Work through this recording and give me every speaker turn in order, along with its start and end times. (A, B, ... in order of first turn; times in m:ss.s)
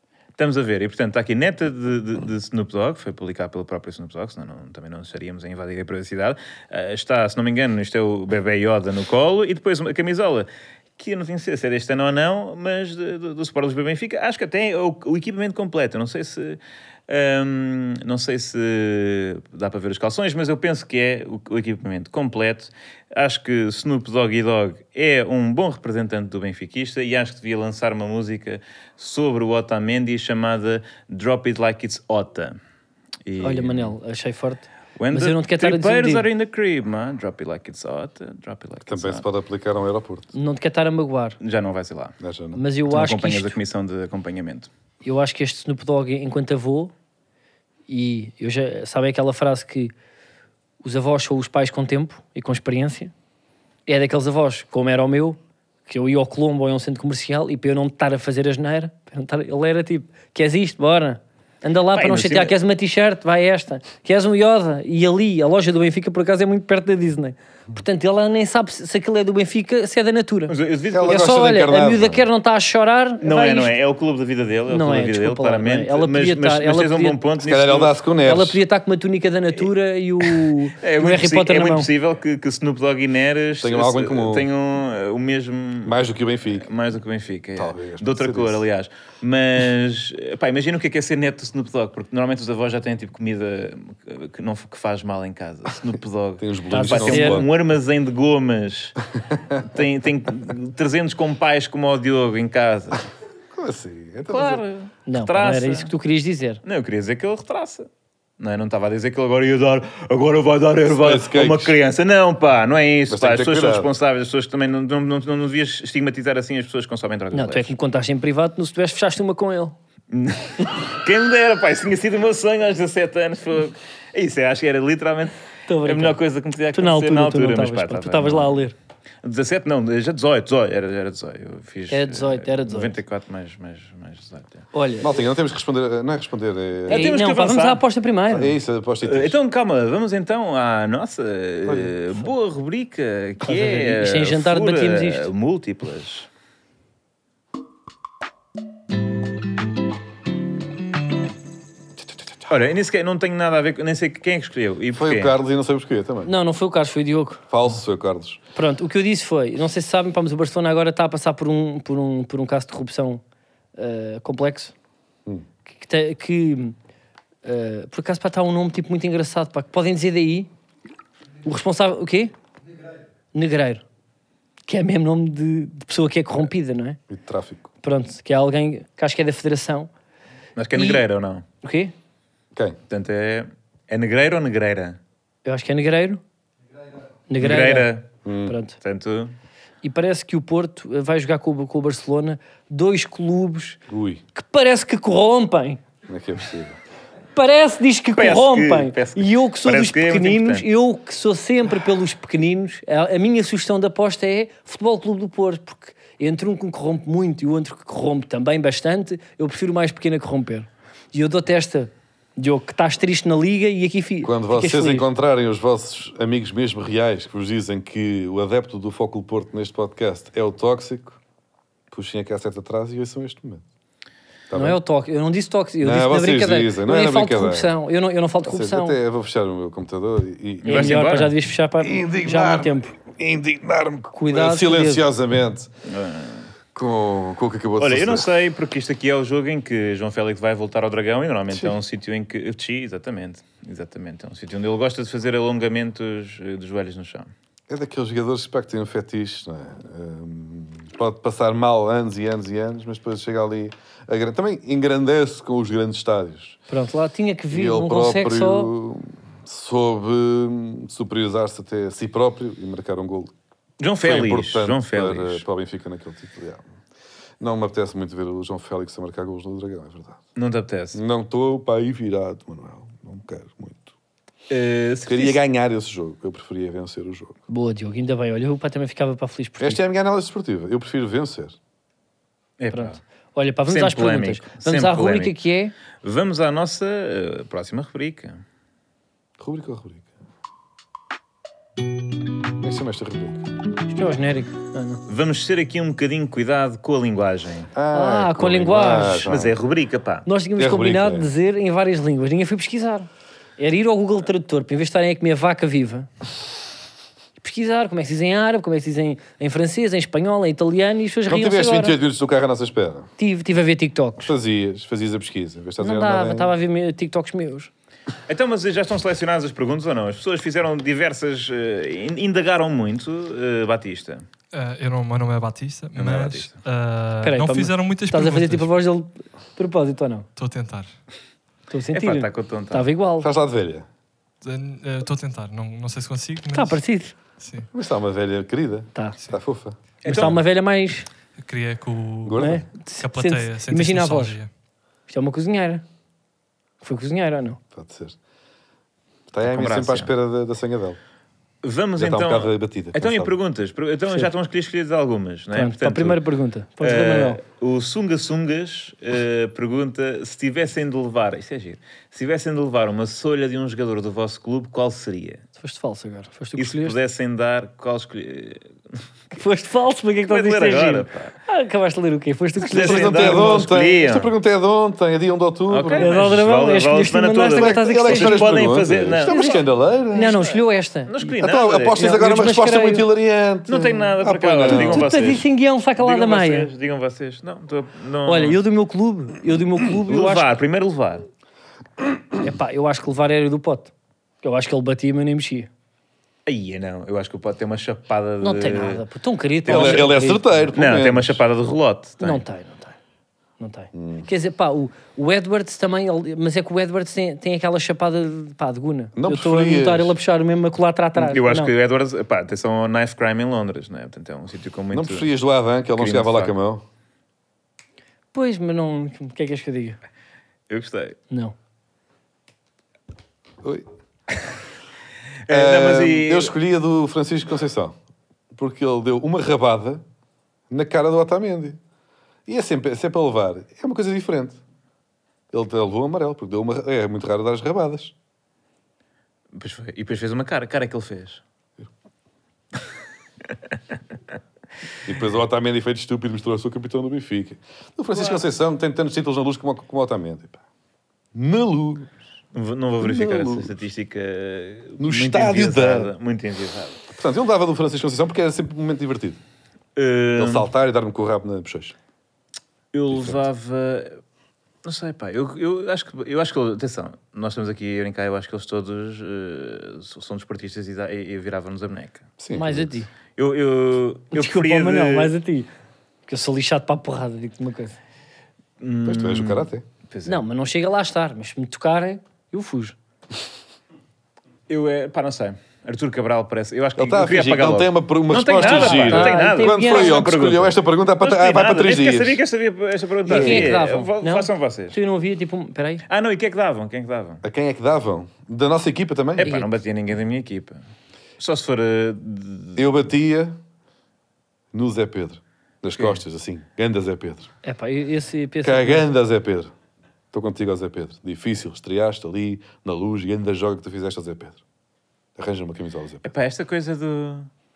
0:00.4-0:32.6 A
0:33.2-0:33.9 A
0:33.4-0:36.2 B
0:35.0-0:39.2 A
0:38.8-0:40.3 C
0:40.3-0:41.4 B
0:41.4-0:42.1 A
0:42.2-0:42.6 C
0:42.6-0:43.6 B
0:42.9-0:44.7 A
0:45.0-0:46.9 B
0:47.9-0:49.9 B
0:50.8-0:53.1 B
0:53.9-1:13.7 B
1:01.9-1:02.5 A
1:10.5-1:11.2 A
1:10.9-1:12.2 C
1:13.2-1:17.9 A
1:14.7-1:17.2 B
1:17.4-1:18.6 C
1:18.2-1:21.9 B
1:20.2-1:26.0 A
1:23.6-1:24.5 C
1:25.8-1:26.7 C
1:26.5-1:39.0 A
1:27.6-1:28.6 C
1:36.4-1:37.5 C
1:36.7-1:37.4 B
1:39.3-1:39.6 C
1:39.6-1:43.0 A
1:43.5-1:44.6 C
1:44.3-1:45.9 A
1:45.1-1:46.6 B
1:46.6-1:47.9 A
1:48.4-1:57.7 A
1:50.8-1:51.7 C
1:53.1-1:53.9 C
1:57.3-1:59.8 B
2:00.1-2:08.6 A
2:05.7-2:06.2 B
2:06.7-2:08.7 B
2:09.2-2:14.6 A
2:11.9-2:13.0 B
2:14.7-2:15.1 B
2:15.0-2:17.1 C
2:16.9-2:17.8 A
2:16.9-2:18.5 B
2:18.3-2:19.4 C
2:19.0-2:26.3 A
2:21.6-2:22.0 C
2:23.4-2:25.3 B
2:32.5-2:35.4 A
2:35.0-2:36.3 C
2:36.2-2:37.4 B
2:37.5-2:38.4 C
2:38.5-2:43.2 B
2:43.8-2:44.7 B
2:45.7-2:46.8 B
2:47.4-2:50.5 B
2:51.4-2:52.3 B
2:53.3-2:53.8 B
2:54.7-2:57.0 B
2:57.1-2:57.7 C
2:57.8-2:59.9 B
3:00.6-3:01.4 A
3:00.7-3:01.0 B
3:01.6-3:01.9 B
3:02.9-3:05.0 A
3:05.4-3:06.2 B
3:07.3-3:07.9 B
3:07.4-3:08.1 A
3:08.2-3:08.6 C
3:08.5-3:08.8 B
3:08.8-3:09.3 A
3:09.8-3:13.8 B
3:13.9-3:14.2 C
3:14.3-3:15.8 B
3:16.1-3:16.8 C
3:17.3-3:35.1 B
3:18.2-3:20.6 A
3:34.2-3:41.2 C
3:41.9-3:43.6 C
3:44.5-3:44.8 C
3:44.5-3:49.0 B
3:45.8-3:47.7 C
3:48.4-3:51.2 C
3:50.6-3:51.3 A
3:50.6-3:52.9 B
3:51.8-3:55.7 C
3:54.1-3:55.0 B
3:55.8-3:56.5 A
3:56.7-3:58.3 C
3:57.8-4:07.3 A
4:07.7-4:16.6 C
4:16.7-4:18.7 B
4:17.5-4:23.3 C
4:23.8-4:25.4 A
4:24.0-4:26.7 C
4:27.4-4:30.2 C
4:30.4-4:31.0 A
4:30.9-4:33.9 C
4:34.5-4:35.4 A
4:35.1-4:37.4 C
4:37.5-4:39.8 B
4:39.6-4:41.6 C
4:42.6-4:43.0 A
4:42.7-4:45.7 B
4:43.7-4:45.3 A
4:46.0-4:48.4 A
4:49.4-4:50.1 C
4:52.6-4:53.5 C
4:53.9-4:55.0 B
4:55.1-4:57.7 A
4:57.7-4:59.6 C
4:57.9-4:59.2 B
4:59.2-5:00.2 A
5:00.2-5:06.1 B
5:00.6-5:01.3 C
5:07.4-5:12.0 B
5:11.3-5:13.1 C
5:13.2-5:14.3 B
5:14.2-5:16.5 C
5:15.8-5:17.7 B
5:18.3-5:24.2 A
5:24.5-5:28.7 D
5:26.0-5:26.6 A
5:27.2-5:30.3 B
5:30.4-5:30.9 D
5:31.7-5:33.3 B
5:31.9-5:32.8 A
5:33.2-5:33.8 C
5:34.4-5:36.8 D
5:36.5-5:37.1 B
5:37.4-5:37.7 D
5:37.7-5:39.8 C
5:40.0-5:40.4 A
5:40.0-5:41.1 B
5:40.1-5:40.4 D
5:41.4-5:44.5 D
5:42.2-5:42.6 C
5:42.4-5:44.4 B
5:45.1-5:45.8 B
5:46.8-5:47.6 B
5:47.7-5:48.2 C
5:49.3-5:51.0 C
5:49.4-5:50.1 A
5:51.6-5:56.2 A
5:52.0-5:53.3 C
5:55.5-5:57.4 B
5:56.8-6:05.4 A
6:05.6-6:07.0 B
6:06.6-6:09.0 A
6:09.3-6:13.5 B
6:10.3-6:11.3 A
6:12.6-6:14.3 A
6:12.7-6:16.1 C
6:15.7-6:22.0 A
6:16.0-6:18.6 B
6:17.6-6:20.4 C
6:19.2-6:21.3 B
6:21.4-6:25.4 C
6:21.9-6:23.0 B
6:23.7-6:25.5 A
6:24.6-6:26.7 B
6:26.0-6:28.6 A
6:28.2-6:30.5 B
6:30.1-6:31.3 A
6:32.4-6:33.9 B
6:34.4-6:35.7 B
6:36.4-6:39.0 A
6:38.4-6:40.6 B
6:39.6-6:40.1 A
6:39.7-6:41.4 C
6:40.7-6:42.4 A
6:42.2-6:42.9 B
6:43.6-6:51.7 B
6:43.9-6:44.3 C
6:49.2-6:50.1 C
6:51.2-6:55.3 A
6:54.9-6:56.8 C
6:56.0-6:56.5 A
6:58.3-7:00.0 B
7:00.7-7:01.2 A
7:05.4-7:06.5 A
7:05.5-7:07.9 C
7:08.5-7:10.0 C
7:10.7-7:11.8 C
7:12.5-7:14.6 C
7:15.5-7:18.1 C
7:19.5-7:21.4 A
7:25.0-7:30.6 C
7:28.1-7:28.4 A
7:31.3-7:32.1 C
7:32.5-7:37.0 A
7:33.0-7:33.8 C
7:35.0-7:36.1 C
7:37.1-7:39.4 C
7:40.0-7:40.7 A
7:40.4-7:41.9 C
7:42.9-7:44.2 A
7:43.1-7:43.4 C
7:44.8-7:52.2 A
7:52.4-7:53.0 C
7:52.5-7:53.1 B
7:53.4-7:55.3 A
7:54.3-7:55.7 B
7:56.3-7:58.0 B
7:58.8-8:00.4 A
7:59.0-7:59.8 C
8:00.2-8:03.0 B
8:04.7-8:15.0 A
8:07.0-8:12.4 C
8:08.6-8:10.2 B
8:13.2-8:16.0 B
8:13.3-8:13.7 C
8:16.1-8:17.4 A
8:17.4-8:19.5 C
8:19.4-8:20.8 A
8:19.4-8:19.7 B
8:21.4-8:22.8 A
8:22.8-8:23.6 C
8:24.7-8:27.5 C
8:27.6-8:29.0 B
8:28.6-8:29.7 C
8:30.3-8:34.6 C
8:35.4-8:36.3 C
8:36.2-8:37.5 A